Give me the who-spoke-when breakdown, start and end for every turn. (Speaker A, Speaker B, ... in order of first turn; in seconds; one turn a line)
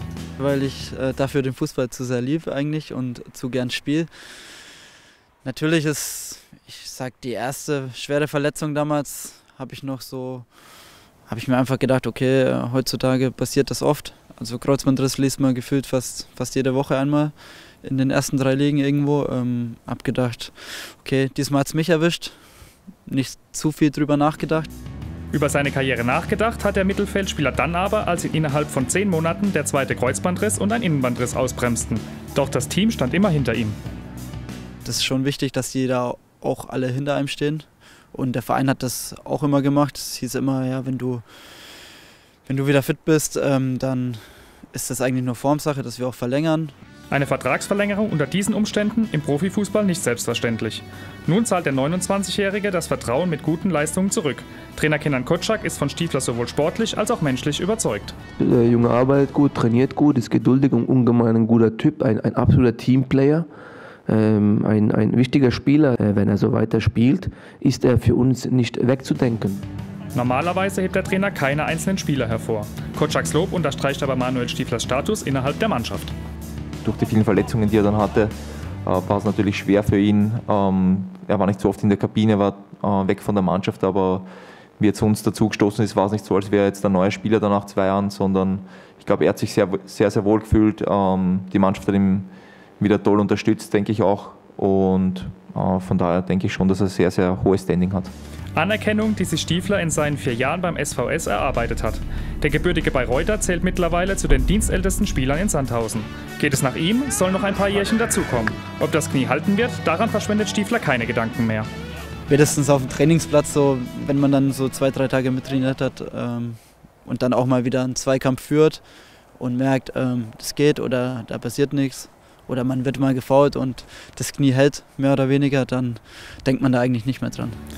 Speaker A: 0.4-4.2
Speaker A: 5.4-10.5
Speaker A: 11.3-22.4
Speaker A: 23.1-24.7
Speaker B: 25.3-33.8
Speaker A: 34.8-41.2
Speaker A: 42.5-46.7
Speaker B: 47.1-58.1
Speaker C: 58.4-63.5
Speaker C: 64.1-69.6
Speaker B: 70.1-76.1
Speaker D: 76.8-78.3
Speaker D: 78.8-84.3
Speaker D: 84.8-98.1
Speaker B: 98.5-111.7
Speaker A: 112.3-118.8
Speaker A: 119.4-127.5